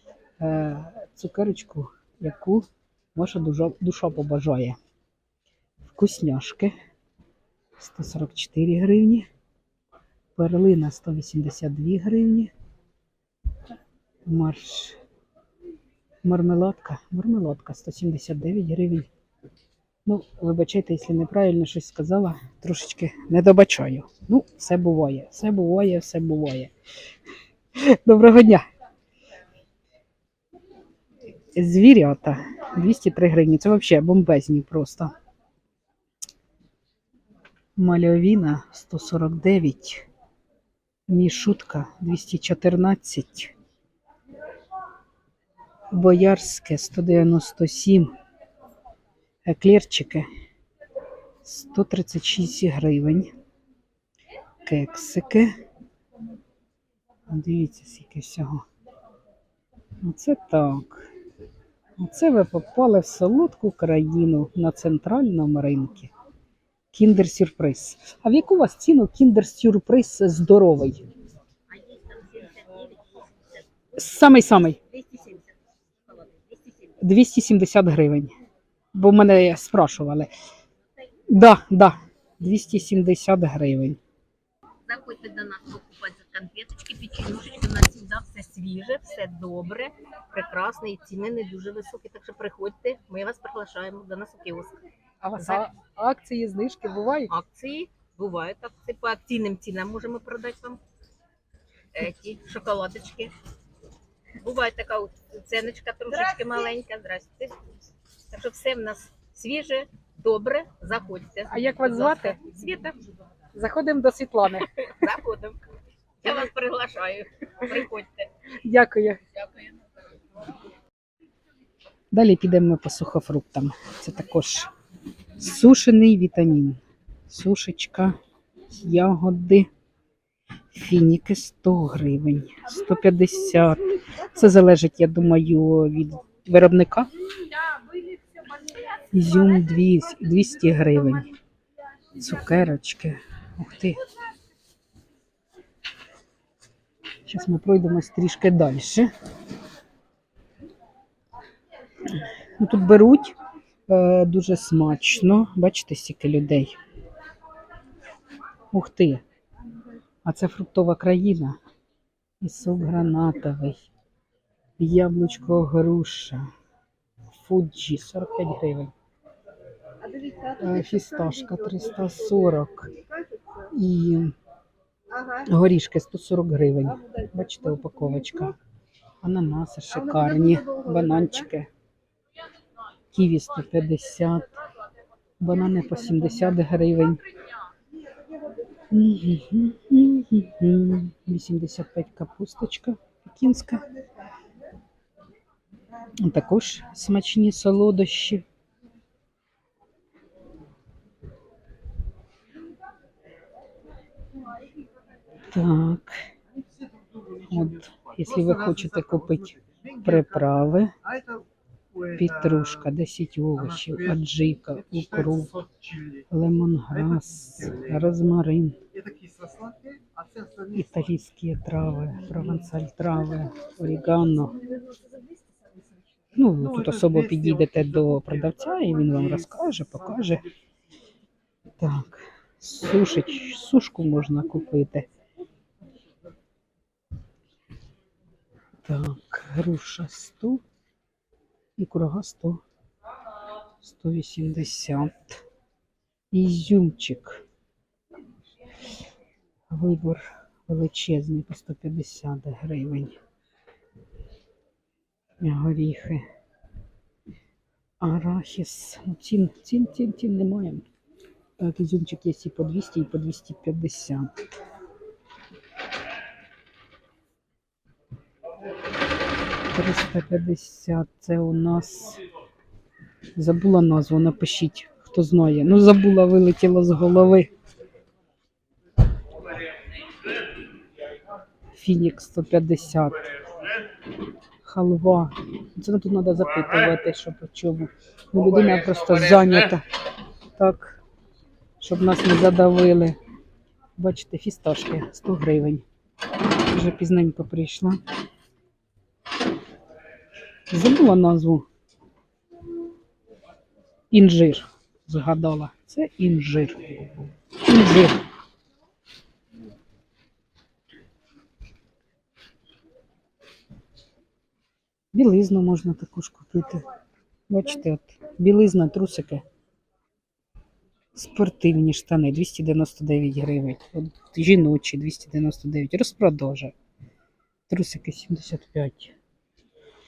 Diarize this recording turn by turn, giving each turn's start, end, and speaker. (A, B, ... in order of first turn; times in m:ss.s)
0:00.4-0:04.8 A
0:05.8-0:06.7 A
0:07.8-0:09.3 A
0:10.4-0:12.5 A
0:14.3-0:15.0 A
0:16.2-0:19.1 A
0:20.1-0:26.7 A
0:27.8-0:28.6 A
0:31.5-0:35.1 A
0:37.8-0:40.0 A
0:41.1-0:43.5 A
0:45.9-0:48.1 A
0:49.5-0:50.3 A
0:51.4-0:53.3 A
0:54.6-0:55.5 A
0:57.3-0:58.6 A
1:00.0-1:01.1 A
1:02.0-1:06.1 A
1:06.9-1:11.0 A
1:11.7-1:13.6 B
1:14.0-1:14.8 A
1:14.7-1:17.0 B
1:17.0-1:18.3 A
1:18.9-1:20.3 A
1:21.3-1:24.0 A
1:24.9-1:34.8 B
1:35.2-1:37.3 A
1:37.3-1:40.8 B
1:41.9-1:43.3 B
1:44.4-1:47.6 B
1:48.3-1:53.0 B
1:51.5-1:52.4 A
1:53.5-1:54.7 A
1:54.8-1:55.6 B
1:56.2-1:58.3 B
1:58.6-1:59.2 A
1:59.3-1:59.7 B
2:02.1-2:04.7 A
2:05.4-2:08.2 A
2:08.7-2:09.7 A
2:10.7-2:17.1 A
2:19.1-2:21.3 A
2:22.2-2:24.0 A
2:27.3-2:29.1 A
2:32.6-2:33.4 A
2:33.9-2:36.8 A
2:38.7-2:39.2 A
2:40.2-2:41.6 A
2:42.4-2:43.9 A
2:44.8-2:46.5 A
2:47.3-2:48.9 A
2:50.5-2:52.9 A
2:53.7-2:54.3 A
2:55.4-2:58.6 A
2:59.2-3:01.7 A
3:03.1-3:04.5 A
3:05.4-3:07.2 A
3:08.9-3:13.8 A
3:16.2-3:18.4 A
3:25.5-3:26.2 A
3:27.4-3:30.9 A
3:32.1-3:35.6 A
3:36.3-3:38.8 A
3:40.7-3:44.6 A
3:46.4-3:50.5 A
3:51.8-3:55.1 A
3:58.9-4:00.6 A
4:01.8-4:02.6 A
4:03.8-4:05.4 A
4:06.3-4:07.4 A
4:09.7-4:13.2 A
4:15.4-4:16.2 A
4:18.0-4:20.8 A
4:21.6-4:24.3 A
4:29.7-4:32.2 A
4:33.4-4:37.5 A
4:41.8-4:43.3 A
4:44.6-4:49.8 A
4:50.6-4:51.0 A
4:51.8-4:53.2 A
4:54.0-4:55.8 A
4:56.7-4:58.0 A
5:00.7-5:01.7 A
5:04.1-5:07.0 A
5:07.6-5:08.2 A
5:15.1-5:16.8 A
5:17.5-5:19.4 A
5:21.2-5:26.7 A
5:27.7-5:29.1 A